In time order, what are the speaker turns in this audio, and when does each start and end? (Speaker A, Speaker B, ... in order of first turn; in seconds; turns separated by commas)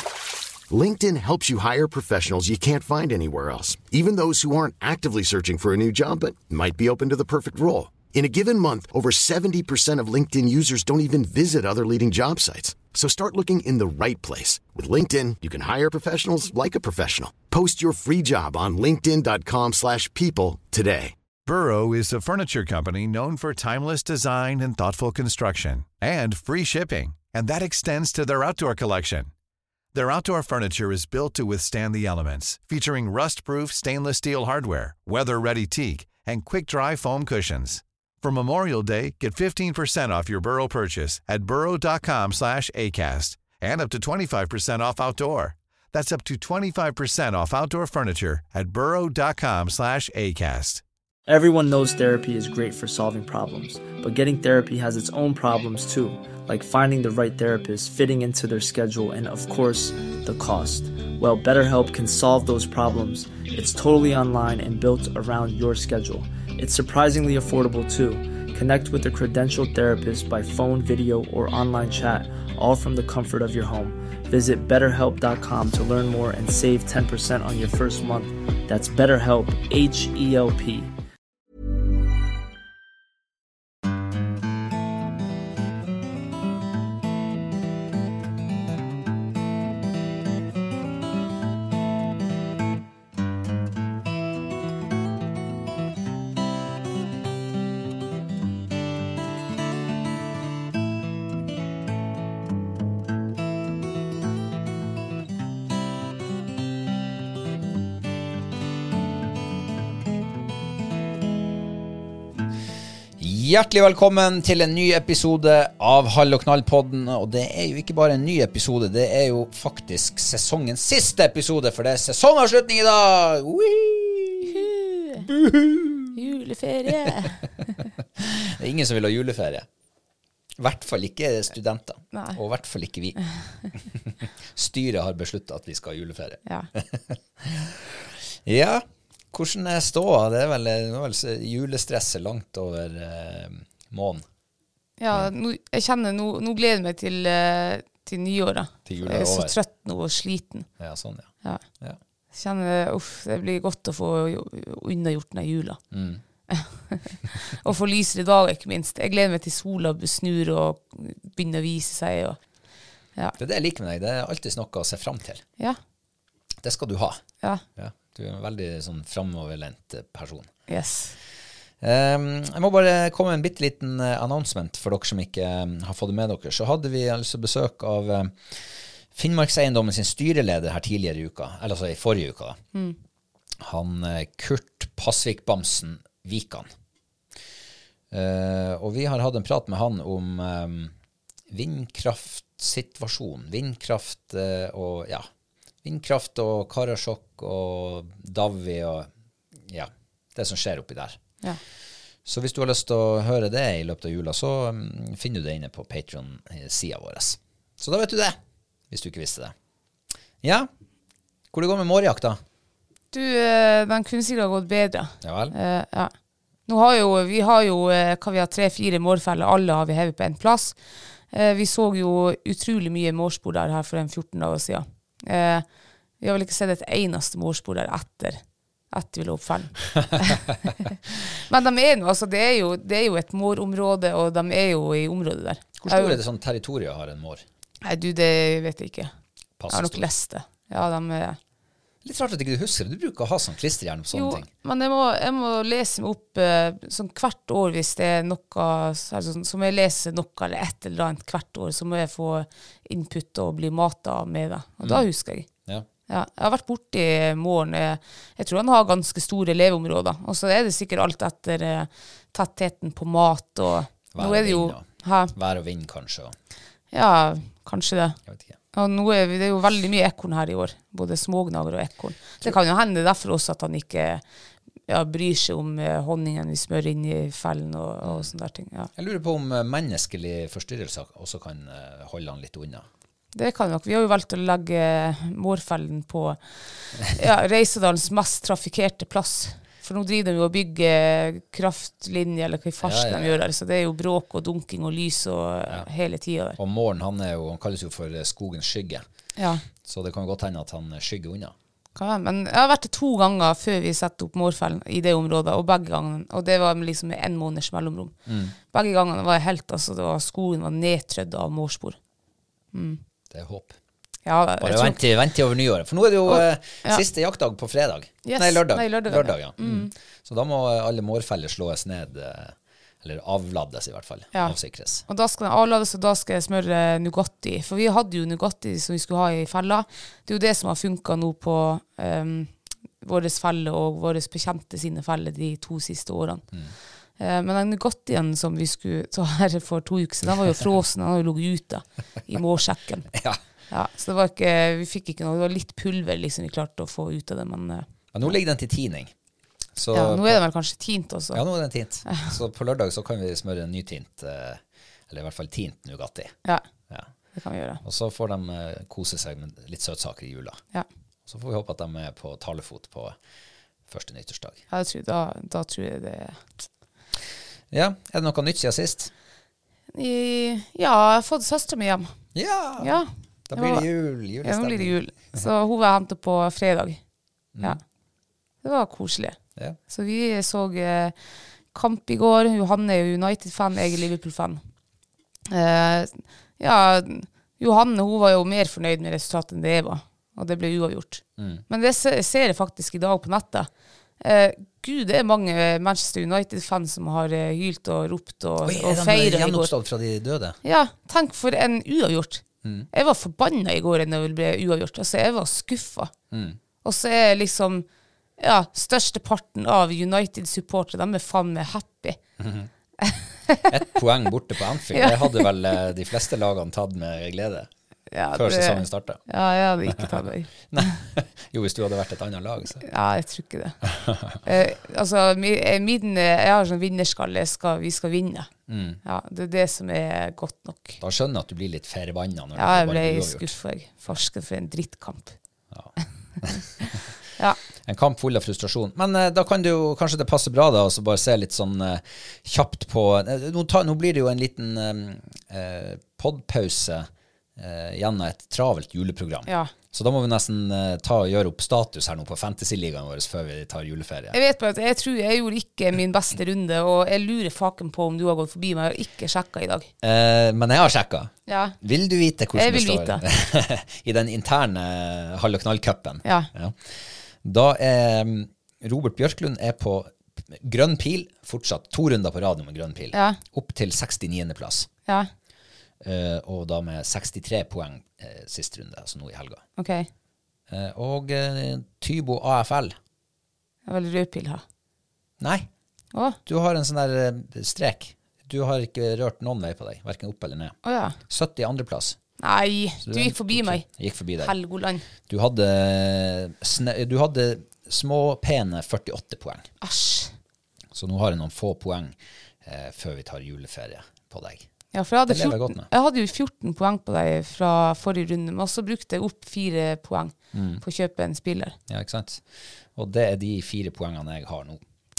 Speaker A: 0.7-21.1, Speaker B: 21.5-29.3, Speaker B: 29.9-50.8, Speaker C: 51.3-80.9, Speaker D: 113.2-126.2, Speaker E: 124.5-125.3, Speaker E: 126.2-127.5, Speaker D: 128.2-129.7, Speaker D: 130.6-133.2, Speaker E: 132.1-132.4, Speaker D: 133.7-144.2, Speaker E: 145.0-150.7, Speaker D: 148.8-149.6, Speaker D: 150.8-152.0, Speaker E: 152.3-155.8, Speaker D: 155.9-156.2, Speaker E: 156.5-162.4, Speaker D: 163.4-165.4, Speaker D: 166.6-167.2, Speaker D: 167.8-170.5, Speaker E: 170.7-171.2, Speaker D: 171.8-182.6, Speaker D: 183.6-186.7, Speaker D: 188.1-190.9, Speaker D: 191.5-195.3, Speaker D: 195.8-199.1, Speaker D: 199.6-201.2, Speaker D: 202.3-208.4, Speaker D: 208.9-209.5, Speaker D: 210.4-210.7, Speaker D: 211.5-212.4, Speaker E: 213.1-216.1, Speaker D: 215.2-215.5, Speaker E: 216.7-220.8, Speaker E: 221.3-225.7, Speaker E: 226.2-236.2, Speaker D: 235.8-237.4, Speaker E: 237.8-239.1, Speaker D: 239.6-240.1, Speaker E: 239.7-241.4, Speaker D: 242.0-244.5, Speaker E: 244.1-255.5, Speaker E: 256.1-265.3, Speaker D: 264.1-266.4, Speaker E: 266.9-268.2, Speaker D: 268.3-268.6, Speaker E: 268.7-274.2, Speaker E: 274.9-278.9, Speaker D: 278.0-278.3, Speaker D: 279.0-282.9, Speaker E: 283.3-296.6, Speaker D: 292.8-293.4, Speaker D: 296.6-299.0, Speaker E: 299.4-299.6, Speaker D: 299.8-301.6, Speaker E: 302.0-308.1, Speaker D: 308.3-308.6, Speaker E: 308.7-312.0, Speaker E: 312.7-313.0, Speaker D: 313.3-313.8, Speaker E: 314.3-315.0, Speaker D: 314.6-325.0, Speaker E: 316.3-317.1, Speaker E: 318.2-319.9, Speaker E: 324.3-336.4, Speaker E: 337.2-343.1, Speaker D: 343.1-343.4, Speaker E: 343.7-348.4, Speaker D: 348.1-349.1, Speaker D: 349.8-350.4, Speaker E: 349.9-351.4, Speaker D: 351.3-356.4, Speaker E: 352.0-352.3, Speaker E: 357.3-357.8, Speaker D: 357.8-360.6, Speaker D: 361.3-363.2, Speaker D: 363.9-364.6, Speaker E: 364.7-366.6, Speaker D: 367.7-369.1, Speaker E: 369.9-372.1, Speaker D: 372.4-375.5, Speaker E: 372.8-373.9, Speaker E: 374.4-377.0, Speaker E: 378.6-379.4, Speaker E: 379.9-381.2, Speaker E: 381.7-384.6, Speaker E: 385.5-393.7, Speaker D: 391.4-391.6, Speaker E: 394.2-399.7, Speaker D: 398.6-400.6, Speaker E: 400.6-406.1, Speaker D: 402.6-402.9, Speaker D: 406.3-406.6, Speaker E: 406.8-407.9, Speaker E: 408.4-412.2, Speaker D: 412.4-412.7, Speaker E: 413.0-413.6, Speaker D: 413.7-417.7, Speaker E: 414.9-415.5, Speaker E: 418.1-420.9, Speaker D: 418.3-419.2, Speaker D: 420.7-422.8, Speaker E: 422.8-423.8, Speaker D: 423.9-424.4, Speaker E: 424.4-428.5, Speaker D: 428.7-429.0, Speaker E: 429.0-431.0, Speaker D: 431.0-433.6, Speaker E: 432.6-435.4, Speaker D: 435.7-436.6, Speaker E: 436.8-437.6, Speaker D: 437.9-454.4, Speaker E: 449.5-449.7, Speaker E: 454.3-459.9, Speaker D: 460.0-474.9, Speaker E: 461.5-461.8, Speaker E: 462.5-463.2, Speaker D: 476.0-479.6, Speaker E: 479.8-480.1, Speaker D: 480.7-483.0, Speaker E: 483.9-484.6, Speaker D: 485.4-485.7, Speaker D: 486.5-490.8, Speaker E: 490.9-491.2, Speaker D: 491.3-492.2, Speaker E: 492.4-495.1, Speaker D: 493.0-494.6, Speaker D: 495.3-499.7, Speaker E: 499.8-500.4, Speaker D: 500.9-504.7, Speaker E: 504.9-511.8, Speaker D: 505.3-505.9, Speaker D: 510.5-510.8, Speaker D: 511.9-514.8